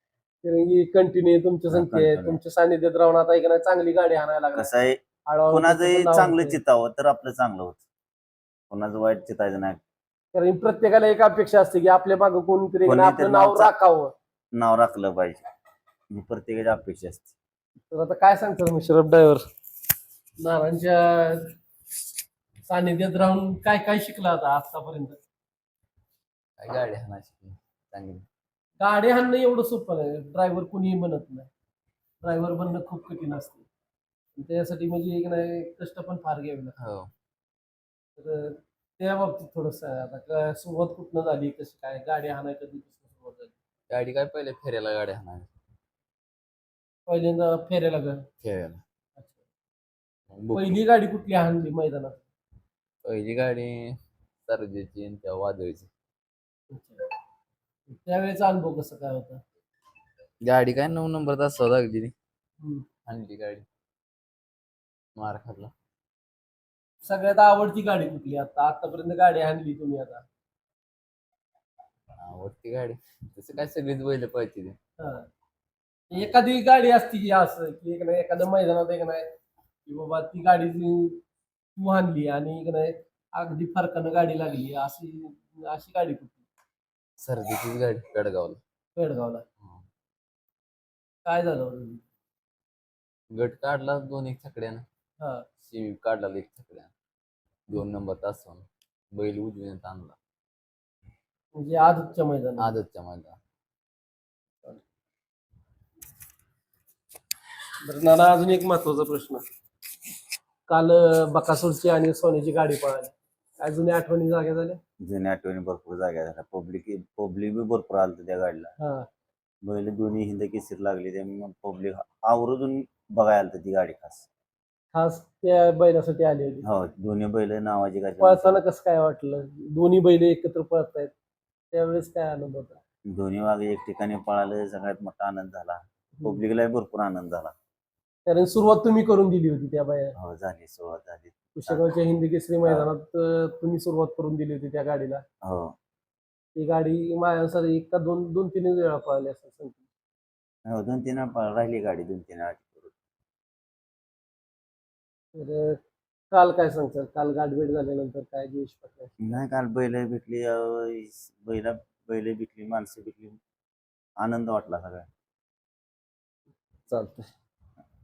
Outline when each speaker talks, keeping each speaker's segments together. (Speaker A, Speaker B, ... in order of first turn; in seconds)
Speaker A: 0.4-4.7, 5.3-6.6, 10.3-14.1, 17.9-19.4, 20.4-21.5, 22.7-25.2, 28.8-31.5, 32.2-33.7, 34.4-36.8, 38.2-43.5, 47.1-48.3, 50.5-52.2, 56.7-57.0, 57.9-59.4, 62.6-62.9, 67.0-70.2, 75.0-75.3, 76.1-79.2, 79.9-81.2, 81.8-86.4, 89.0-89.4, 91.2-92.0, 95.2-95.5, 101.5-102.7, 107.8-109.4, 110.7-114.8, 118.8-119.1, 124.9-126.6, 128.2-131.1, 131.7-132.8, 138.3-140.1, 141.6-145.2, 146.6-149.8, 155.3-155.8, 156.3-159.3, 166.9-167.3
Speaker B: 1.7-2.4, 4.6-7.8, 8.7-9.8, 12.9-13.7, 14.6-15.4, 16.1-17.3, 115.0-118.8, 119.7-124.3, 126.7-128.6, 133.1-137.5, 140.2-141.8, 145.4-145.7, 150.7-152.9, 159.2-163.4, 164.2-165.1
Speaker C: 26.6-28.2, 36.8-37.1, 43.9-45.5, 48.4-48.8, 50.3-50.8, 53.0-55.9, 60.4-62.1, 63.1-63.7, 65.2-65.7, 72.2-74.8, 87.2-88.6, 93.3-94.8, 95.6-96.9, 97.7-100.2, 102.6-103.4